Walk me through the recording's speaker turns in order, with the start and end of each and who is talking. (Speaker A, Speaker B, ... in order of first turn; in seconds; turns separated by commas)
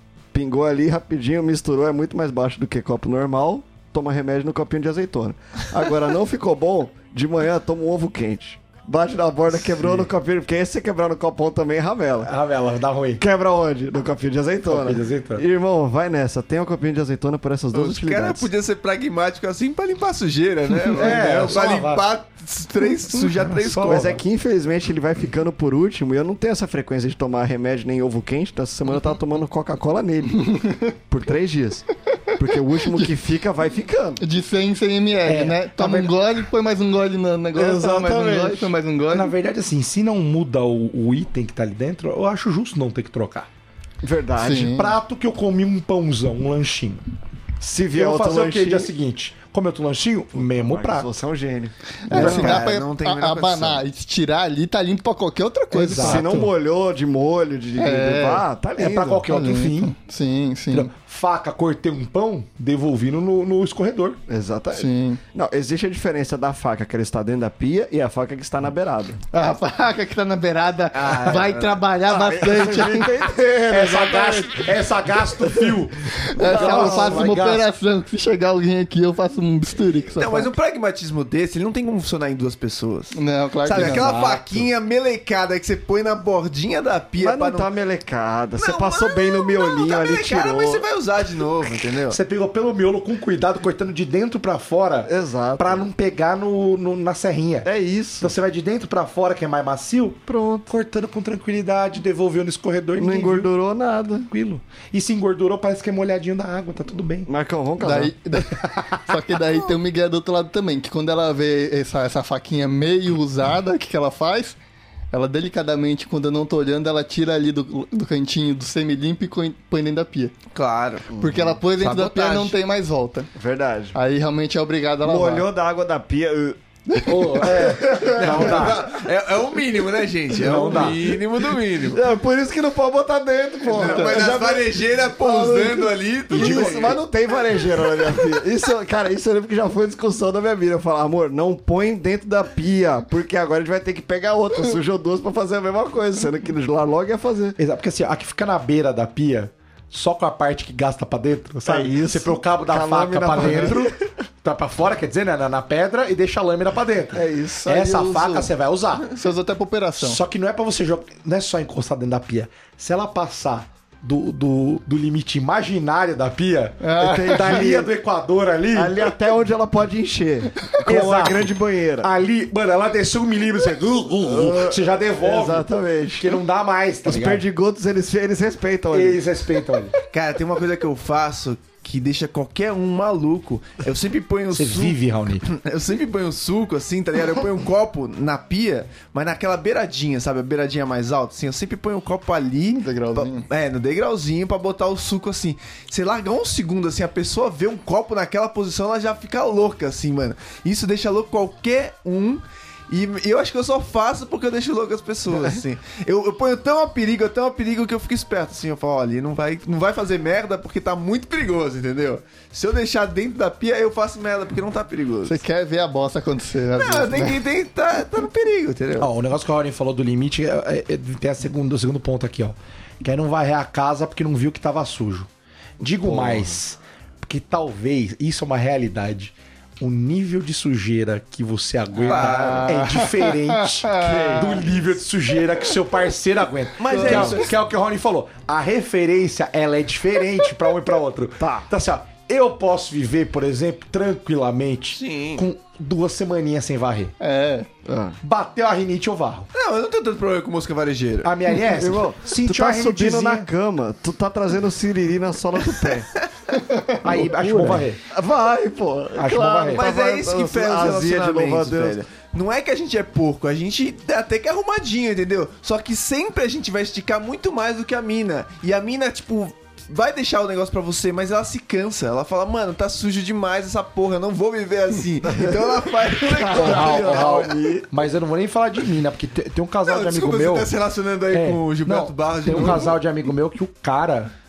Speaker A: 0.3-12.3, Speaker B: 12.2-13.2, Speaker A: 13.2-18.5, Speaker B: 14.7-15.4, Speaker C: 17.7-24.2, Speaker B: 20.9-22.0, Speaker B: 23.4-24.2, Speaker A: 23.8-34.2, Speaker D: 34.2-39.3, Speaker B: 35.2-36.1, Speaker A: 37.5-38.7, Speaker B: 39.1-43.5, Speaker A: 44.0-44.8, Speaker D: 44.4-44.9, Speaker B: 44.6-47.0, Speaker A: 47.6-48.9, Speaker B: 47.9-51.1, Speaker A: 50.3-52.5, Speaker D: 52.1-56.4, Speaker B: 52.1-52.6, Speaker C: 52.1-53.8, Speaker B: 55.7-56.5, Speaker A: 55.9-59.3, Speaker D: 57.8-58.4, Speaker B: 58.8-60.0, Speaker D: 59.3-60.9, Speaker B: 60.7-64.2, Speaker A: 64.3-69.2, Speaker D: 64.7-65.2, Speaker D: 69.3-73.1, Speaker C: 70.9-71.8, Speaker A: 72.0-74.8, Speaker B: 73.7-77.6, Speaker A: 76.2-77.4, Speaker D: 76.3-80.5, Speaker C: 80.2-87.7, Speaker D: 83.1-84.0, Speaker B: 83.7-84.7, Speaker A: 87.2-90.8, Speaker C: 88.6-92.2, Speaker B: 92.1-103.5, Speaker A: 95.0-95.9, Speaker A: 97.6-98.3, Speaker A: 100.3-100.7, Speaker A: 103.0-104.3, Speaker B: 104.3-107.3, Speaker A: 107.2-108.1, Speaker D: 107.8-114.6, Speaker D: 115.1-120.3, Speaker C: 120.5-121.1, Speaker A: 121.1-121.6, Speaker D: 121.2-123.3, Speaker C: 121.8-122.5, Speaker A: 123.3-124.0, Speaker D: 123.9-125.5, Speaker A: 125.0-128.9, Speaker D: 127.0-127.5, Speaker B: 127.0-128.8, Speaker C: 128.2-132.0, Speaker B: 130.4-131.0, Speaker A: 131.8-147.6, Speaker C: 133.7-137.0, Speaker D: 133.8-134.3, Speaker B: 136.3-136.9, Speaker B: 147.6-159.1, Speaker A: 151.6-154.1, Speaker A: 157.1-158.1, Speaker D: 157.7-158.5, Speaker D: 159.1-160.2, Speaker B: 160.0-169.1, Speaker D: 166.8-167.7, Speaker A: 167.0-167.9, Speaker A: 168.7-172.1, Speaker B: 170.8-175.7, Speaker A: 174.2-176.4, Speaker B: 176.2-177.4, Speaker A: 177.0-179.2, Speaker B: 178.9-179.9, Speaker C: 180.1-215.4, Speaker B: 184.5-185.4, Speaker D: 192.7-193.5, Speaker D: 215.2-217.4, Speaker C: 216.8-219.1, Speaker B: 219.0-225.3, Speaker B: 225.8-247.1, Speaker A: 226.0-226.6, Speaker D: 232.0-234.7, Speaker C: 232.0-232.7, Speaker A: 234.0-234.6, Speaker C: 236.8-237.5, Speaker D: 236.9-237.4, Speaker A: 241.4-241.7, Speaker C: 244.9-245.4, Speaker D: 247.2-247.7, Speaker A: 247.8-248.2, Speaker B: 248.2-249.5, Speaker C: 249.5-251.3, Speaker B: 251.2-253.5, Speaker A: 251.6-256.1, Speaker B: 257.0-258.0, Speaker A: 257.1-262.0, Speaker B: 259.1-259.9, Speaker C: 259.7-277.5, Speaker A: 276.2-277.9, Speaker B: 276.5-280.7, Speaker C: 279.9-282.9, Speaker B: 281.3-284.3